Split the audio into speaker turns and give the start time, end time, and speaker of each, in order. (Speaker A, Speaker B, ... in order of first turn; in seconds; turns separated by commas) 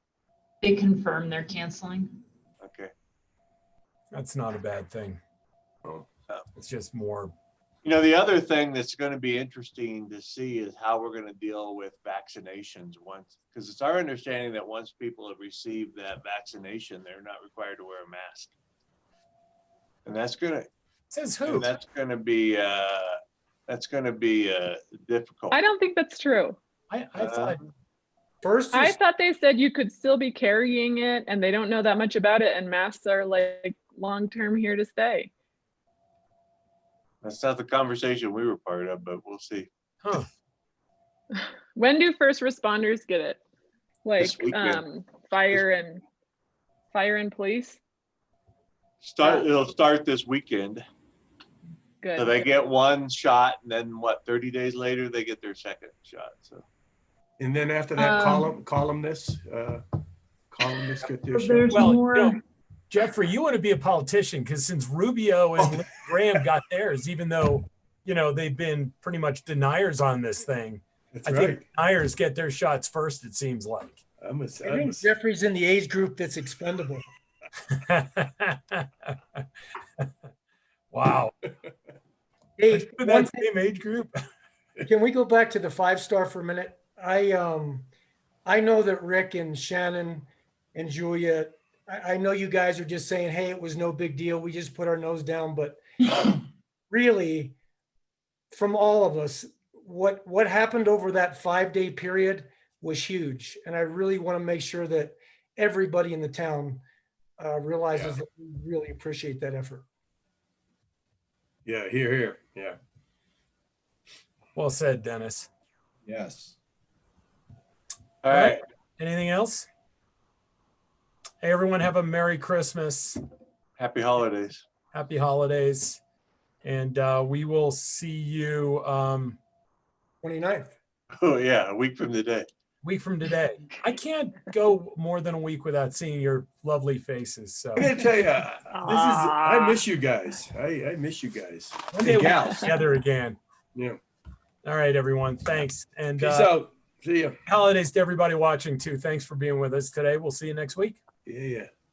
Speaker A: 0.6-2.1, Speaker B: 2.6-2.9, Speaker C: 4.1-5.2, Speaker C: 6.5-7.3, Speaker B: 7.8-18.6, Speaker B: 20.1-20.7, Speaker C: 21.1-21.7, Speaker B: 21.4-25.6, Speaker D: 25.5-26.6, Speaker C: 26.9-27.6, Speaker B: 27.2-27.7, Speaker E: 28.4-29.0, Speaker D: 28.7-35.3, Speaker B: 37.2-39.7, Speaker D: 41.3-43.4, Speaker D: 44.0-46.0, Speaker B: 44.2-44.8, Speaker D: 46.9-47.8, Speaker B: 49.0-50.8, Speaker D: 49.2-49.5, Speaker D: 52.0-52.5, Speaker B: 52.2-56.6, Speaker F: 57.4-59.8, Speaker A: 58.0-58.6, Speaker F: 60.5-61.7, Speaker A: 61.3-62.4, Speaker C: 61.7-74.0, Speaker F: 65.6-65.9, Speaker F: 71.1-71.7, Speaker F: 74.2-75.1, Speaker E: 74.6-77.0, Speaker C: 77.7-79.2, Speaker C: 80.9-81.3, Speaker E: 82.6-83.5, Speaker C: 82.7-84.2, Speaker E: 84.9-87.9, Speaker E: 88.5-95.8, Speaker E: 96.9-97.6, Speaker E: 98.5-106.8, Speaker E: 107.4-109.9, Speaker F: 111.7-112.8, Speaker C: 114.5-115.5, Speaker F: 116.1-116.5, Speaker B: 118.2-118.6, Speaker C: 118.3-119.7, Speaker C: 121.4-123.2, Speaker B: 123.8-124.6, Speaker C: 124.9-126.0, Speaker C: 126.6-129.4, Speaker E: 130.2-130.8, Speaker B: 131.2-132.5, Speaker C: 132.8-137.9, Speaker F: 137.8-142.7, Speaker D: 138.7-139.8, Speaker C: 141.9-143.4, Speaker F: 143.7-144.0, Speaker C: 144.7-146.6, Speaker F: 146.2-147.4, Speaker C: 147.5-151.0, Speaker F: 151.2-151.7